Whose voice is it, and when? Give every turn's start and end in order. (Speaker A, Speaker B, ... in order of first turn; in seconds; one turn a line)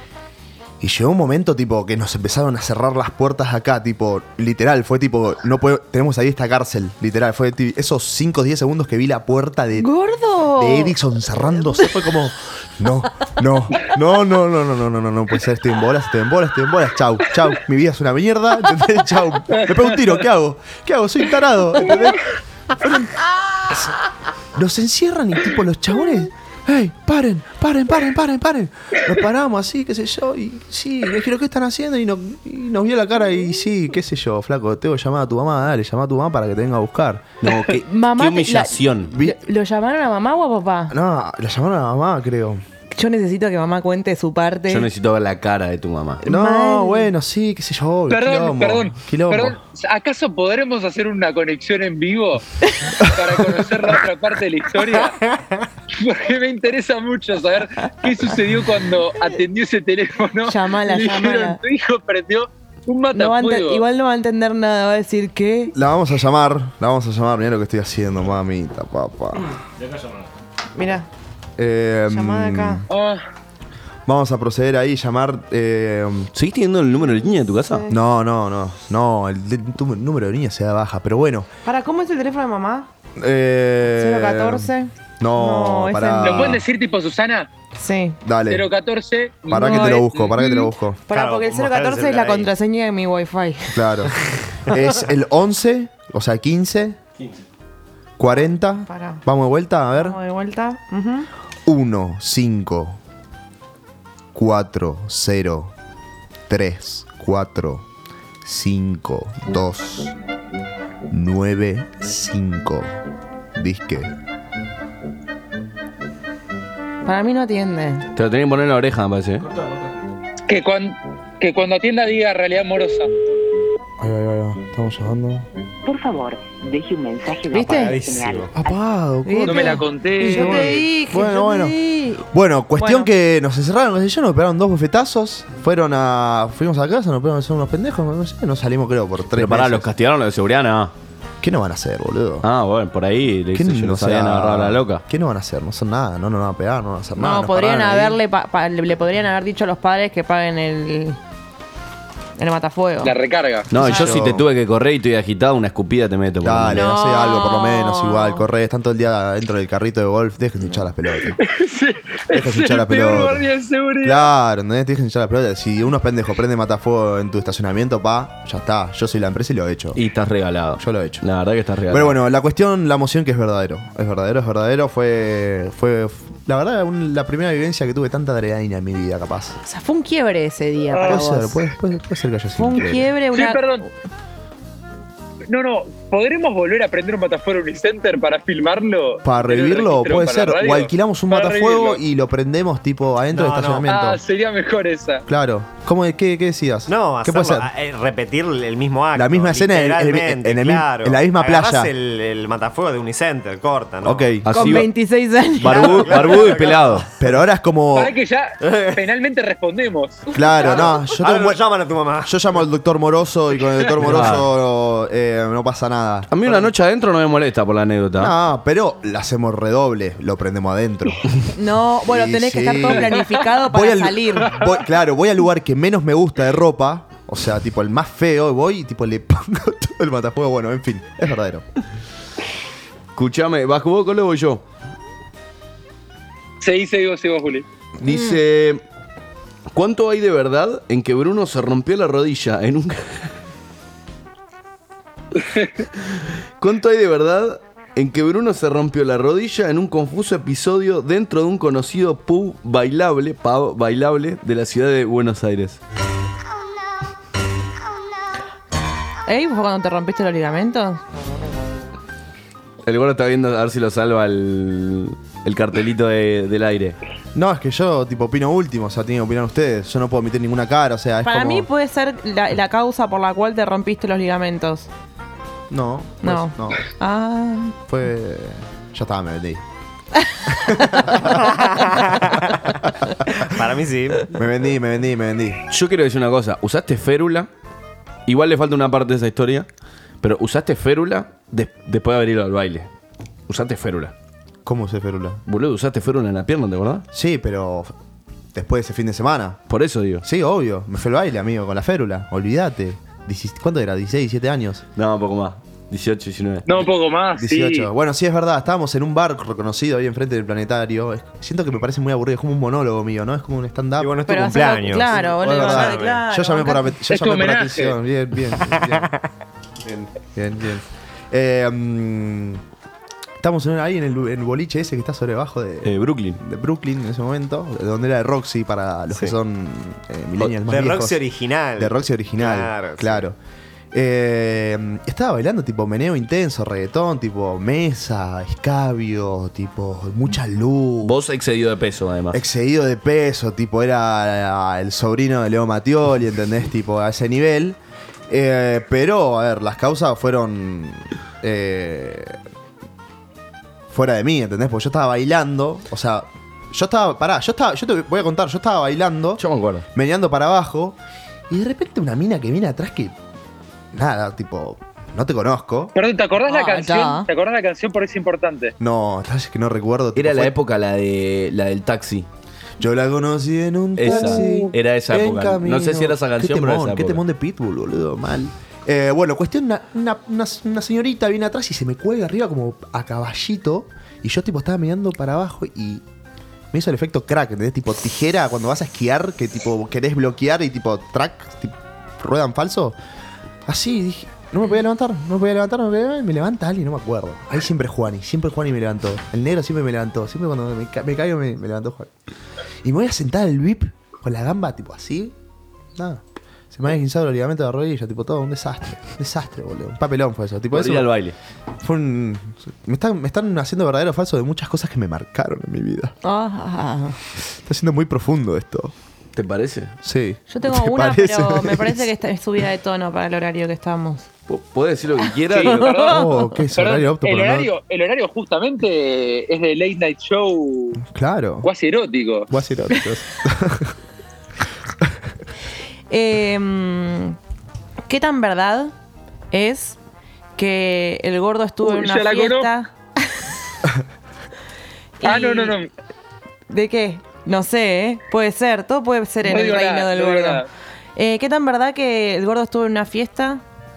Speaker A: 0.8-9.9
Speaker B: 9.8-10.9
Speaker A: 10.5-23.9
Speaker A: 24.5-37.4
Speaker C: 37.4-39.1
Speaker B: 37.8-40.9
Speaker A: 39.1-39.4
Speaker A: 40.9-42.6
Speaker B: 42.9-44.9
Speaker C: 44.7-46.2
Speaker A: 46.2-49.6
Speaker B: 46.2-47.1
Speaker D: 48.1-52.4
Speaker A: 53.0-53.5
Speaker D: 53.1-55.2
Speaker D: 55.9-63.8
Speaker B: 60.5-61.6
Speaker B: 63.1-65.7
Speaker A: 65.7-69.5
Speaker B: 70.7-71.1
Speaker A: 71.6-72.9
Speaker B: 72.1-72.8
Speaker D: 72.9-73.2
Speaker A: 74.0-76.3
Speaker C: 76.3-77.8
Speaker B: 77.7-78.0
Speaker A: 77.9-81.5
Speaker B: 81.6-82.9
Speaker A: 83.2-86.6
Speaker B: 83.9-86.6
Speaker D: 86.2-87.5
Speaker B: 87.8-88.2
Speaker A: 88.2-88.7
Speaker D: 88.5-90.3
Speaker A: 89.5-91.0
Speaker B: 89.5-93.8
Speaker E: 91.1-92.5
Speaker A: 93.7-97.0
Speaker A: 98.2-100.2
Speaker B: 98.9-99.2
Speaker B: 100.0-101.3
Speaker A: 101.7-103.0
Speaker A: 104.3-105.7
Speaker A: 106.5-107.8
Speaker A: 108.4-110.1
Speaker A: 111.1-112.9
Speaker A: 113.5-114.1
Speaker B: 117.0-118.0
Speaker C: 118.2-119.5
Speaker D: 120.5-123.1
Speaker A: 124.0-125.5
Speaker F: 125.8-128.8
Speaker B: 127.5-127.9
Speaker E: 127.5-128.5
Speaker A: 128.5-131.7
Speaker B: 129.2-132.2
Speaker D: 129.4-130.8
Speaker A: 132.3-139.9
Speaker B: 132.8-133.1
Speaker C: 139.3-140.9
Speaker A: 141.4-142.5
Speaker C: 142.4-145.0
Speaker A: 143.5-148.2
Speaker B: 147.2-151.2
Speaker B: 152.4-153.1
Speaker D: 153.0-153.7
Speaker C: 153.7-156.9
Speaker A: 153.7-154.5
Speaker B: 153.8-154.1
Speaker A: 156.4-161.4
Speaker B: 156.7-158.4
Speaker D: 161.4-164.3
Speaker A: 162.3-163.4
Speaker A: 164.0-170.0
Speaker C: 169.9-172.1
Speaker A: 170.8-171.2
Speaker A: 171.9-179.6
Speaker B: 179.6-181.6
Speaker D: 180.9-181.2
Speaker A: 181.1-183.1
Speaker B: 182.5-183.6
Speaker D: 183.3-183.8
Speaker D: 185.5-192.0
Speaker A: 189.2-194.2
Speaker E: 193.3-193.9
Speaker D: 193.9-195.2
Speaker A: 195.3-197.7
Speaker E: 196.9-204.3
Speaker A: 199.1-201.9
Speaker A: 204.0-204.8
Speaker C: 204.4-204.9
Speaker B: 204.5-206.3
Speaker C: 205.6-207.1
Speaker E: 205.6-207.0
Speaker A: 207.2-208.1
Speaker D: 207.9-210.2
Speaker E: 208.6-209.0
Speaker A: 210.3-211.6
Speaker E: 210.7-212.3
Speaker A: 212.2-216.3
Speaker C: 214.0-214.5
Speaker C: 216.3-218.3
Speaker A: 218.2-221.3
Speaker B: 221.5-224.5
Speaker A: 222.1-231.6
Speaker C: 233.1-234.6
Speaker D: 236.6-237.7
Speaker C: 238.0-238.8
Speaker B: 238.1-238.4
Speaker C: 239.7-243.3
Speaker C: 246.6-255.8
Speaker B: 259.3-261.0
Speaker C: 262.8-267.0
Speaker A: 267.3-271.7
Speaker B: 271.2-274.9
Speaker A: 275.7-276.9
Speaker B: 276.2-277.7
Speaker A: 277.9-279.6
Speaker A: 280.6-281.3
Speaker E: 281.5-282.4
Speaker E: 283.4-284.3
Speaker A: 284.3-285.6
Speaker C: 285.7-287.5
Speaker C: 288.3-289.7
Speaker C: 290.2-292.9
Speaker C: 293.5-294.1
Speaker A: 294.6-295.4
Speaker C: 295.5-297.1
Speaker A: 297.1-297.9
Speaker A: 298.5-299.6
Speaker C: 299.7-300.2
Speaker A: 300.2-304.8
Speaker C: 304.9-306.8
Speaker D: 306.6-307.9
Speaker A: 307.4-314.2
Speaker E: 314.0-316.2
Speaker B: 314.3-316.9
Speaker A: 315.1-319.1
Speaker D: 317.1-317.9
Speaker A: 319.8-322.6
Speaker A: 323.4-331.2
Speaker C: 325.8-326.4
Speaker E: 330.6-333.2
Speaker A: 331.8-333.4
Speaker A: 333.9-341.1
Speaker C: 341.0-342.4
Speaker A: 342.3-347.8
Speaker A: 348.3-352.4
Speaker A: 353.9-359.4
Speaker C: 359.4-359.8
Speaker A: 359.9-361.0
Speaker A: 361.5-363.1
Speaker A: 363.9-365.9
Speaker D: 365.9-368.7
Speaker B: 366.5-367.3
Speaker A: 368.8-370.5
Speaker C: 370.1-372.3
Speaker A: 372.8-386.0
Speaker C: 373.9-377.2
Speaker A: 386.7-393.0
Speaker A: 393.6-402.1
Speaker A: 402.8-405.3
Speaker A: 405.9-411.1
Speaker C: 410.7-411.3
Speaker A: 411.8-416.1
Speaker B: 416.2-417.2
Speaker A: 417.4-418.9
Speaker C: 419.3-419.9
Speaker A: 420.0-422.1
Speaker B: 420.5-424.3
Speaker C: 424.5-425.9
Speaker D: 425.5-431.0
Speaker B: 425.6-426.5
Speaker A: 426.1-427.7
Speaker A: 431.0-431.7
Speaker D: 431.6-432.5
Speaker A: 432.5-433.9
Speaker B: 436.1-437.4
Speaker B: 438.1-438.9
Speaker B: 439.5-440.0
Speaker B: 440.6-442.9
Speaker D: 441.8-442.7
Speaker B: 445.2-445.8
Speaker D: 445.2-445.9
Speaker B: 446.7-450.6
Speaker D: 449.4-450.7
Speaker B: 451.1-453.6